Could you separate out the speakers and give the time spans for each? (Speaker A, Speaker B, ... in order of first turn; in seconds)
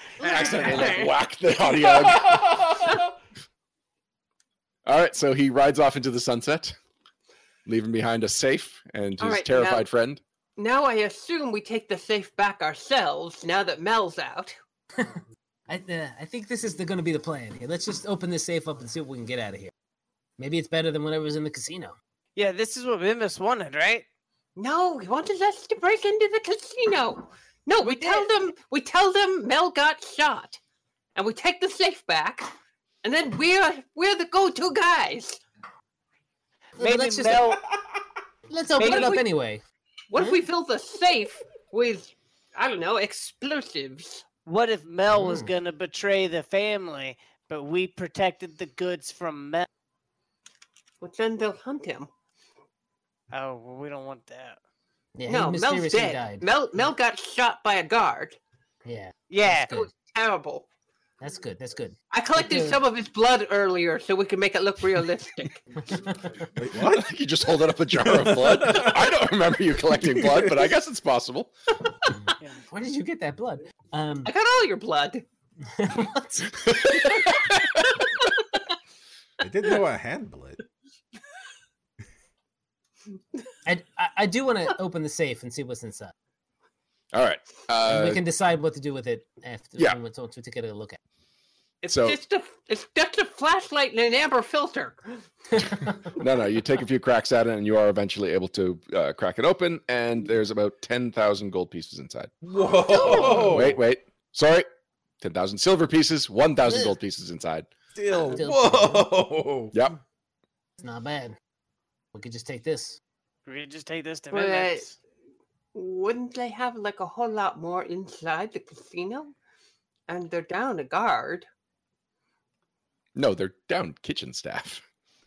Speaker A: 0.2-1.1, 14.9-19.7, 20.4-21.9, 36.8-37.6, 38.5-39.6, 40.2-40.5, 45.1-45.5, 55.1-56.4, 58.8-59.9, 61.2-62.8, 66.0-66.3, 72.7-74.3, 75.6-77.0, 83.6-86.1, 87.8-91.0, 95.7-96.0, 103.0-103.5, 108.3-109.1, 110.8-111.4, 112.1-113.0
Speaker B: 0.2-2.8, 4.8-6.7, 7.7-10.2, 66.9-71.5, 76.6-77.8, 87.1-88.2, 91.9-92.2, 96.1-102.3, 103.0-104.7, 105.2-107.7, 109.7-110.0, 123.1-124.8
Speaker C: 0.2-1.1, 22.4-24.0, 27.8-28.3, 36.8-37.6, 38.8-39.2, 44.5-49.7, 53.3-54.6, 59.3-59.7, 113.5-114.9
Speaker D: 1.8-3.0, 66.5-67.1, 67.9-69.1, 69.8-70.7, 79.4-80.6, 102.4-103.8, 107.9-109.7
Speaker E: 9.2-9.9, 10.6-14.6, 24.6-30.6, 31.1-35.4, 38.8-39.2, 40.1-44.2, 51.0-52.1, 55.2-58.4, 59.7-60.7, 62.1-65.6, 74.2-75.2, 91.8-95.2, 102.9-103.5, 114.3-114.8, 115.7-119.3, 120.1-121.5